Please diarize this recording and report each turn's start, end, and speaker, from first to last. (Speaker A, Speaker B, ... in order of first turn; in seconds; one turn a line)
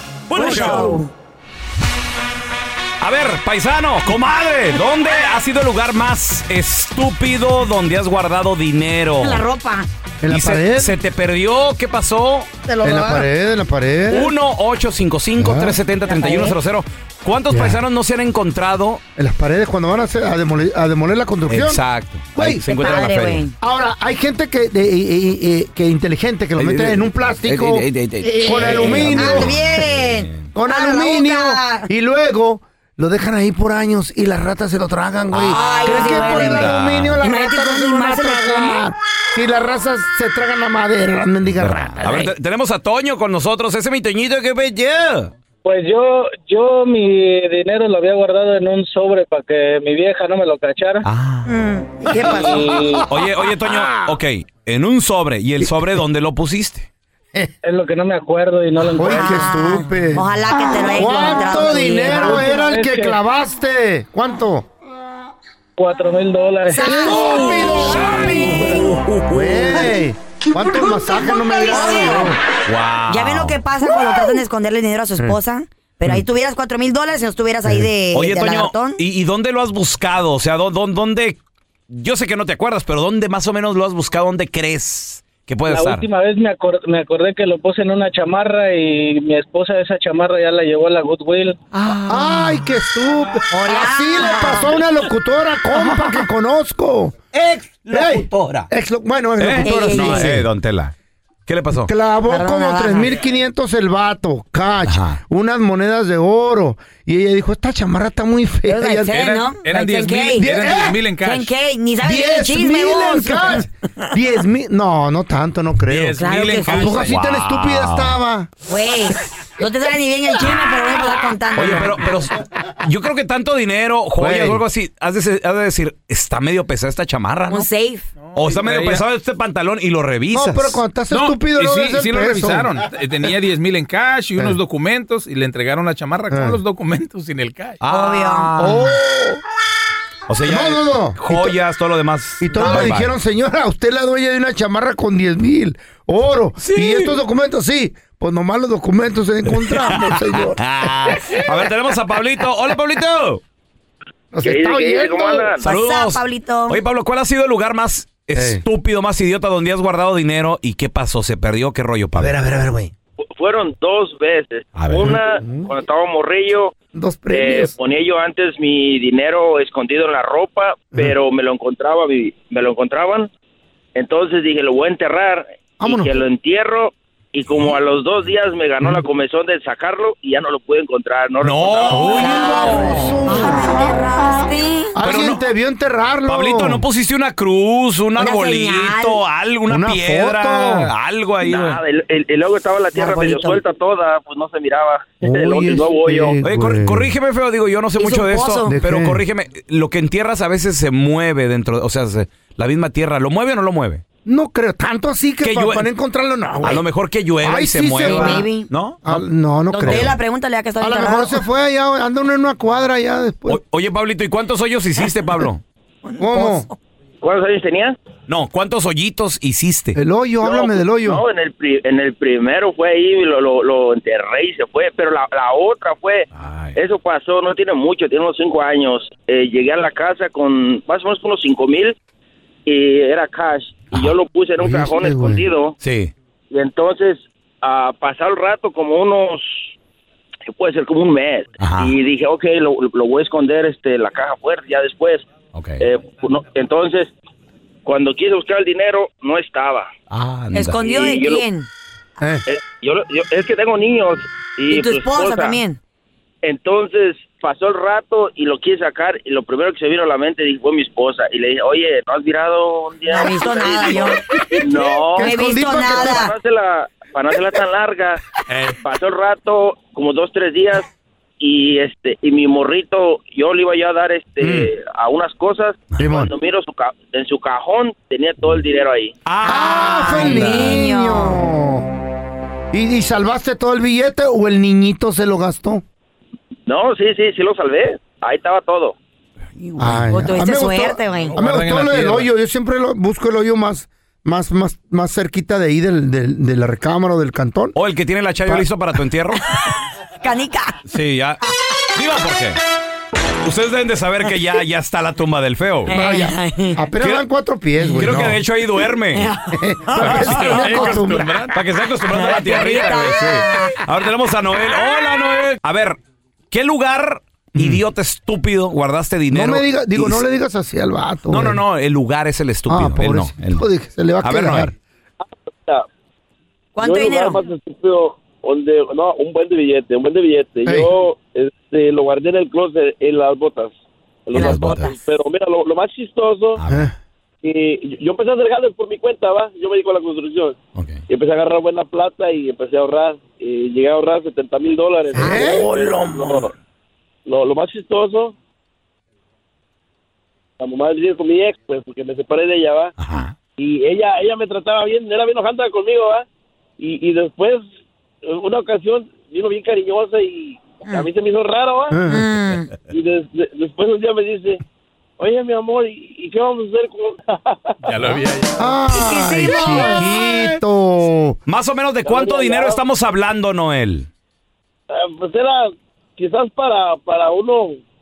Speaker A: 0.3-1.0
Speaker B: 0.3-1.1
Speaker A: 3.0-9.4
Speaker B: 9.2-9.9
Speaker C: 10.2-10.9
Speaker A: 10.3-12.5
Speaker B: 12.6-13.3
Speaker C: 12.8-14.3
Speaker A: 14.1-19.0
Speaker C: 15.4-15.8
Speaker B: 16.1-16.5
Speaker C: 17.5-17.8
Speaker C: 19.2-21.8
Speaker A: 21.5-23.4
Speaker C: 22.3-23.1
Speaker B: 22.7-23.5
Speaker C: 23.6-27.9
Speaker A: 26.6-30.5
Speaker B: 28.2-31.9
Speaker C: 28.4-29.6
Speaker C: 30.5-42.3
Speaker A: 35.3-37.2
Speaker B: 35.5-38.8
Speaker A: 41.5-45.3
Speaker D: 45.6-51.0
Speaker A: 51.0-51.5
Speaker B: 51.5-52.8
Speaker C: 52.1-54.1
Speaker D: 52.4-53.1
Speaker A: 53.1-56.9
Speaker D: 57.6-59.5
Speaker C: 59.0-60.2
Speaker B: 59.0-62.5
Speaker C: 60.8-64.7
Speaker D: 61.8-63.2
Speaker D: 65.8-66.8
Speaker B: 66.7-69.0
Speaker C: 66.8-72.4
Speaker A: 68.6-69.9
Speaker B: 70.6-72.3
Speaker A: 72.7-73.6
Speaker B: 73.1-79.0
Speaker A: 78.1-81.4
Speaker A: 81.9-86.1
Speaker D: 85.7-91.6
Speaker A: 91.8-92.5
Speaker C: 92.1-97.2
Speaker B: 93.5-94.8
Speaker A: 95.7-96.2
Speaker A: 97.3-98.7
Speaker C: 97.9-100.5
Speaker A: 99.4-100.9
Speaker B: 99.6-100.4
Speaker A: 101.5-101.9
Speaker C: 101.8-109.3
Speaker B: 102.3-103.2
Speaker A: 104.8-105.2
Speaker B: 108.7-114.1
Speaker E: 109.6-111.5
Speaker C: 110.4-111.0
Speaker C: 112.0-118.5
Speaker E: 115.9-117.1
Speaker B: 116.2-117.0
Speaker A: 116.9-118.2
Speaker B: 118.7-122.0
Speaker A: 121.5-127.7
Speaker C: 124.2-124.6
Speaker B: 127.5-128.1
Speaker E: 128.3-129.0
Speaker A: 128.3-130.8
Speaker C: 130.3-132.7
Speaker E: 131.1-137.8
Speaker C: 136.3-136.6
Speaker A: 137.8-139.0
Speaker B: 137.9-138.5
Speaker C: 138.6-139.4
Speaker A: 140.3-143.1
Speaker C: 140.4-141.6
Speaker C: 142.4-151.4
Speaker A: 146.6-147.2
Speaker A: 149.5-153.4
Speaker C: 154.3-155.5
Speaker F: 154.4-155.6
Speaker A: 155.6-162.3
Speaker B: 155.6-156.8
Speaker C: 158.3-158.6
Speaker C: 162.2-162.9
Speaker F: 163.3-166.7
Speaker A: 164.8-165.2
Speaker C: 164.9-165.8
Speaker C: 166.9-167.7
Speaker F: 167.3-173.3
Speaker F: 173.9-182.3
Speaker C: 175.8-176.1
Speaker A: 181.4-183.2
Speaker C: 181.9-184.0
Speaker B: 182.2-184.9
Speaker C: 184.9-186.8
Speaker A: 185.0-185.4
Speaker A: 186.3-191.8
Speaker B: 188.2-189.2
Speaker C: 189.7-190.9
Speaker F: 191.4-196.4
Speaker B: 192.9-193.6
Speaker C: 195.2-197.1
Speaker A: 196.4-204.0
Speaker B: 198.0-198.7
Speaker C: 198.7-199.2
Speaker C: 204.2-206.8
Speaker A: 205.4-205.9
Speaker A: 206.6-209.2
Speaker C: 207.4-208.4
Speaker B: 208.0-208.7
Speaker C: 209.0-210.2
Speaker B: 209.7-211.4
Speaker C: 210.8-213.6
Speaker A: 213.5-215.6
Speaker B: 216.1-216.7
Speaker C: 216.2-216.7
Speaker F: 217.2-217.9
Speaker A: 218.3-220.0
Speaker C: 219.9-221.2
Speaker F: 220.4-231.9
Speaker A: 226.3-226.8
Speaker F: 232.7-235.7
Speaker C: 234.6-235.5
Speaker A: 235.8-236.1
Speaker F: 236.5-239.7
Speaker F: 240.5-245.2
Speaker A: 241.6-241.9
Speaker A: 245.5-245.8
Speaker F: 245.8-247.1
Speaker F: 247.8-249.9
Speaker A: 250.1-250.8
Speaker B: 250.5-251.7
Speaker F: 250.8-251.4
Speaker C: 252.2-252.4
Speaker F: 252.5-255.6
Speaker B: 254.7-255.8
Speaker F: 256.4-270.9
Speaker B: 263.1-264.2
Speaker C: 265.1-266.3
Speaker B: 265.2-266.3
Speaker E: 268.5-268.8
Speaker F: 271.4-279.1
Speaker C: 274.4-274.7
Speaker C: 276.0-276.3
Speaker A: 279.2-280.8
Speaker B: 279.4-281.4
Speaker C: 279.4-281.9
Speaker C: 282.7-285.8
Speaker F: 286.7-288.9
Speaker C: 289.8-297.7
Speaker B: 289.8-291.4
Speaker E: 291.3-292.3
Speaker A: 297.7-299.4
Speaker B: 300.2-300.8
Speaker A: 300.9-301.4
Speaker A: 301.9-302.6
Speaker A: 303.4-305.9
Speaker B: 305.9-306.8
Speaker C: 305.9-308.4
Speaker A: 307.0-307.2
Speaker A: 307.9-309.3
Speaker B: 309.1-309.6
Speaker C: 309.6-311.5
Speaker A: 309.9-316.0
Speaker E: 310.0-311.6
Speaker B: 312.1-313.8
Speaker C: 312.9-313.4
Speaker A: 316.5-320.2
Speaker C: 317.5-317.8
Speaker C: 319.3-321.6
Speaker A: 321.3-323.6
Speaker C: 322.7-324.7
Speaker A: 324.2-324.7
Speaker G: 325.2-325.9
Speaker B: 326.8-327.4
Speaker G: 326.8-336.6
Speaker C: 330.6-330.9
Speaker B: 334.3-334.9
Speaker A: 334.4-334.9
Speaker A: 336.6-336.9
Speaker C: 336.7-336.9
Speaker G: 337.4-340.6
Speaker A: 340.7-341.0
Speaker G: 341.1-346.5
Speaker C: 345.1-346.5
Speaker G: 347.2-348.3
Speaker G: 350.6-352.9
Speaker A: 353.0-353.3
Speaker G: 353.6-356.2
Speaker G: 356.8-357.6
Speaker G: 358.2-362.0
Speaker C: 361.9-362.2
Speaker B: 362.1-362.7
Speaker G: 362.9-364.6
Speaker G: 365.2-368.1
Speaker E: 367.8-368.8
Speaker C: 368.6-371.4
Speaker B: 368.9-370.1
Speaker A: 371.5-374.1
Speaker G: 372.0-372.8
Speaker G: 374.9-377.8